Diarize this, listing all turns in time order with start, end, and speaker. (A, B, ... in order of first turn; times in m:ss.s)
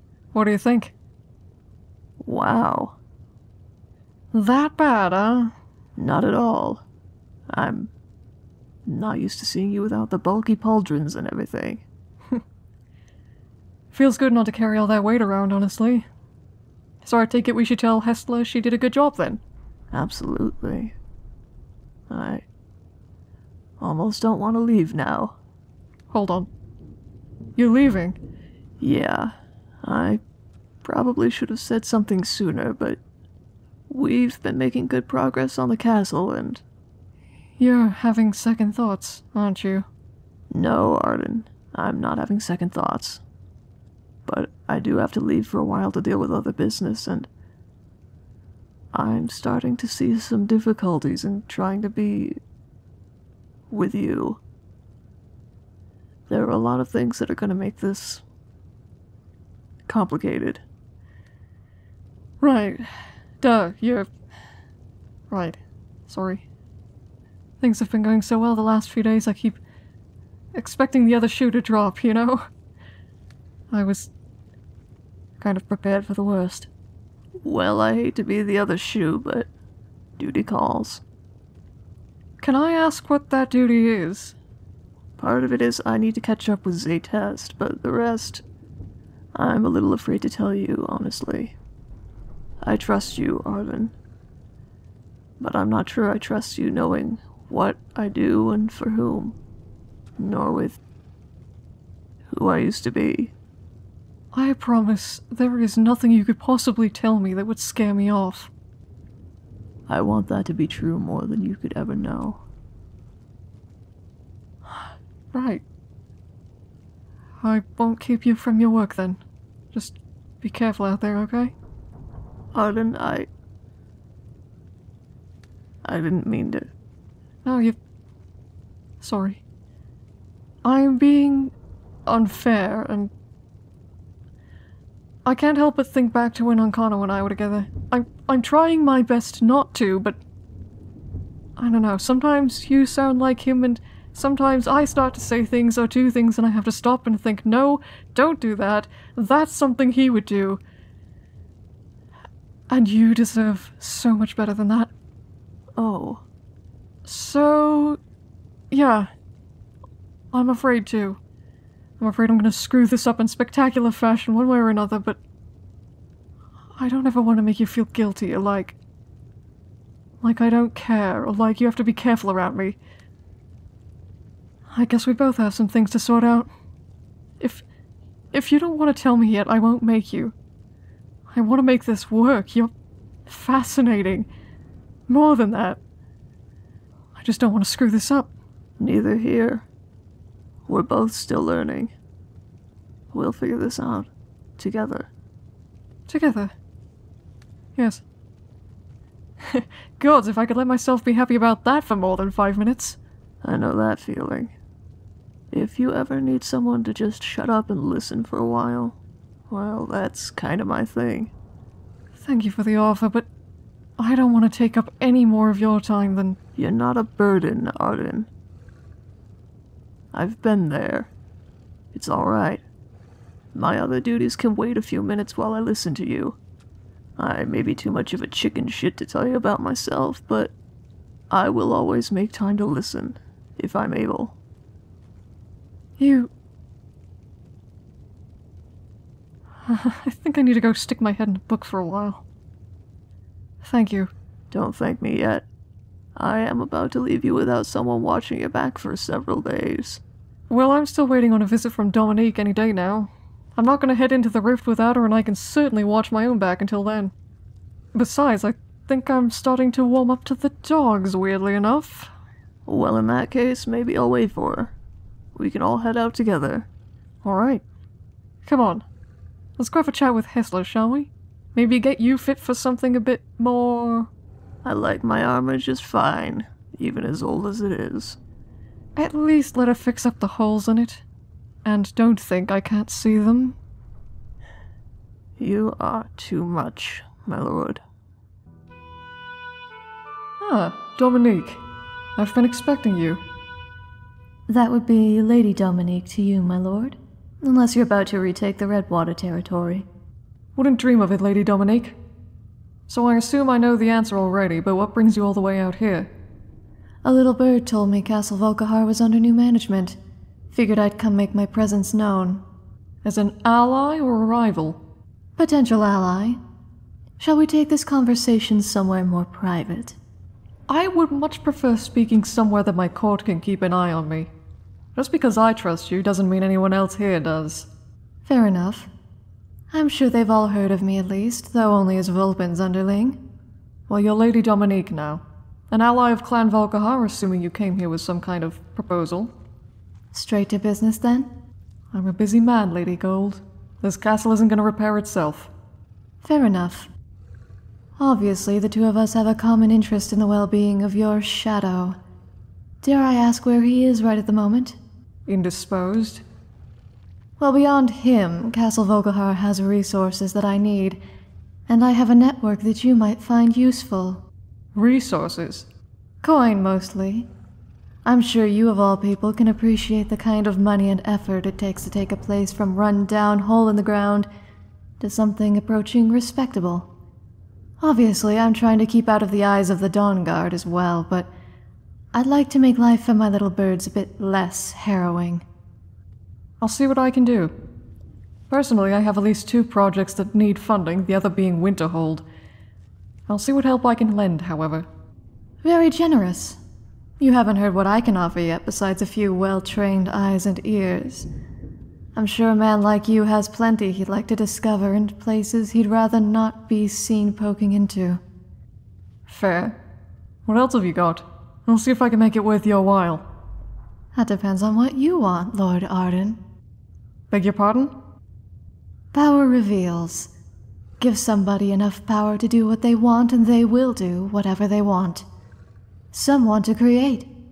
0:00.3-0:00.9 A
0:02.2-0:03.0 B
0:04.3-0:05.5 A
0:06.0-0:06.8 B
0:07.5-0:07.9 B
0:08.9-0:11.8 B
0:13.9-0:16.1 A
0:17.0-0:19.4 A
0:19.9-0:21.0 B
0:22.1-0:22.4 B
0:23.8-0:25.4 B
0:26.1-0:26.5 A
0:27.6-0:28.2 A
0:28.8-0:30.2 B
0:30.8-0:33.0 B
0:33.9-0:36.6 B
0:37.6-0:39.9 A
0:40.5-0:43.2 B
0:44.3-0:47.3 B
0:48.9-0:52.4 B
0:53.7-0:54.4 B
0:56.3-0:58.2 B
0:59.9-1:00.6 B
1:02.4-1:02.9 A
1:03.4-1:04.1 A
1:05.3-1:06.4 A
1:07.6-1:09.6 A
1:10.6-1:12.5 A
1:13.7-1:14.1 A
1:15.4-1:16.7 A
1:17.4-1:19.5 B
1:20.2-1:21.0 B
1:22.4-1:24.4 A
1:25.2-1:28.4 B
1:29.3-1:31.6 B
1:32.6-1:33.9 B
1:35.4-1:39.4 B
1:40.2-1:40.8 B
1:42.3-1:43.3 B
1:44.3-1:48.5 A
1:49.9-1:52.4 B
1:55.3-1:55.6 A
1:57.4-1:59.2 A
1:59.7-2:01.5 A
2:02.5-2:03.3 B
2:05.8-2:06.7 B
2:07.4-2:07.8 A
2:09.0-2:09.4 A
2:10.6-2:11.5 A
2:12.1-2:13.1 A
2:15.2-2:20.2 A
2:21.6-2:30.6 A
2:32.7-2:34.9 A
2:35.8-2:36.2 B
2:37.0-2:38.0 A
2:38.7-2:39.1 A
2:40.3-2:41.2 A
2:42.0-2:45.2 A
2:46.8-2:48.8 A
2:50.2-2:52.8 A
2:54.7-2:56.5 A
2:58.3-3:00.4 A
3:01.3-3:02.7 A
3:03.3-3:04.3 A
3:05.1-3:05.8 A
3:07.2-3:08.3 A
3:08.8-3:09.6 B
3:10.7-3:11.9 B
3:13.1-3:15.1 B
3:16.1-3:16.5 A
3:17.8-3:18.0 A
3:19.4-3:23.0 A
3:23.4-3:24.5 B
3:25.5-3:29.0 B
3:29.5-3:31.3 B
3:32.2-3:33.3 A
3:34.0-3:36.4 A
3:36.6-3:38.3 B
3:40.1-3:41.1 B
3:41.9-3:42.6 B
3:43.5-3:46.4 B
3:47.2-3:50.5 B
3:51.3-3:54.4 B
3:56.0-3:56.3 A
3:59.7-4:02.2 A
4:03.6-4:04.1 A
4:04.5-4:05.5 B
4:06.2-4:10.0 B
4:10.5-4:17.1 A
4:17.9-4:22.1 A
4:22.7-4:24.7 B
4:25.4-4:26.7 B
4:27.2-4:27.6 A
4:28.4-4:28.8 A
4:29.6-4:34.1 A
4:34.6-4:38.2 B
4:39.0-4:41.0 A
4:41.6-4:43.6 A
4:45.4-4:47.8 B
4:50.4-4:51.6 A
4:52.2-4:53.2 A
4:54.5-4:59.9 C
5:00.6-5:02.0 A
5:02.9-5:06.1 A
5:07.0-5:10.0 C
5:10.5-5:12.4 C
5:13.0-5:14.8 A
5:15.4-5:16.4 C
5:17.2-5:20.0 C
5:20.7-5:24.3 A
5:25.0-5:27.7 A
5:28.3-5:28.9 C
5:29.7-5:33.2 C
5:33.9-5:39.3 A
5:40.1-5:41.3 C
5:41.9-5:45.5 A
5:46.2-5:46.9 C
5:48.0-5:52.0 C
5:52.8-5:54.8 C
5:55.3-5:56.2 A
5:57.4-6:01.0 C
6:01.7-6:04.2 C
6:04.8-6:05.7 A
6:06.2-6:07.3 C
6:08.0-6:14.3 C
6:15.0-6:16.9 C
6:17.8-6:21.3 C
6:22.1-6:25.4 C
6:26.6-6:27.5 A
6:28.5-6:32.3 A
6:33.3-6:34.9 A
6:35.6-6:36.6 C
6:37.2-6:41.3 C
6:42.2-6:48.2 C
6:49.3-6:49.7 A
6:49.3-6:49.7 C
6:50.5-6:53.2 A
6:54.1-6:56.4 C
6:57.3-6:57.9 A
6:59.1-7:00.3 C
7:01.0-7:05.3 C
7:06.1-7:07.3 C